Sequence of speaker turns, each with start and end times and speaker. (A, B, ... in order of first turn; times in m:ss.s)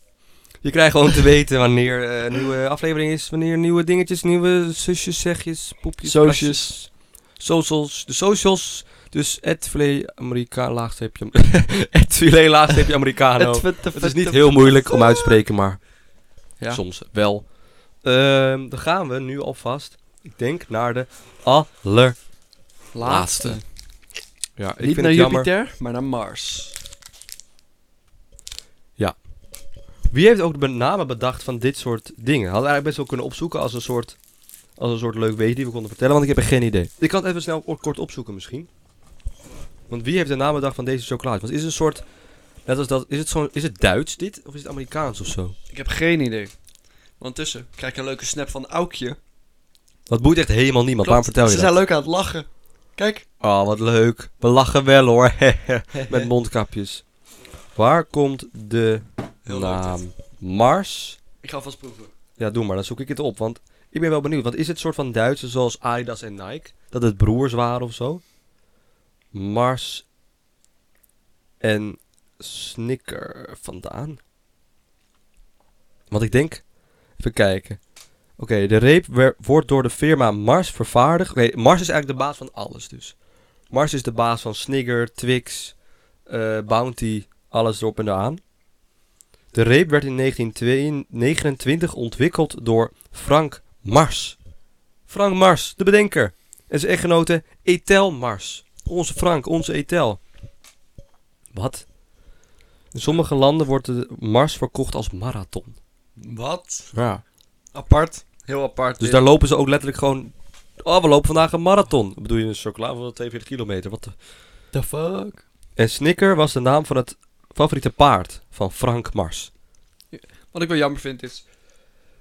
0:00.6-0:16.0 A
0:06.0-0:06.8 B
0:13.4-0:15.4 B
0:16.6-0:22.3 A
0:22.9-0:23.7 A
0:22.9-0:23.7 B
0:24.6-0:25.5 A
0:24.8-0:26.8 B
0:29.0-0:29.3 A
0:30.0-0:34.2 A
0:34.8-0:38.7 A
0:39.9-0:45.6 A
0:45.7-0:46.6 B
0:47.2-0:49.2 B
0:50.1-0:51.8 A
0:51.0-0:53.2 B
0:53.4-0:57.1 A
0:55.9-0:56.3 B
0:57.7-1:01.2 A
0:59.4-1:00.0 B
1:01.4-1:02.1 B
1:02.4-1:08.2 A
1:09.3-1:10.0 A
1:11.6-1:14.2 A
1:16.1-1:28.4 A
1:29.5-1:34.4 A
1:35.1-1:40.2 A
1:41.5-1:41.9 A
1:42.9-1:45.8 A
1:46.2-1:47.0 B
1:46.9-1:47.2 A
1:47.7-1:49.2 B
1:49.0-1:54.2 A
1:54.7-1:55.4 B
1:55.8-1:59.5 A
2:00.1-2:01.4 B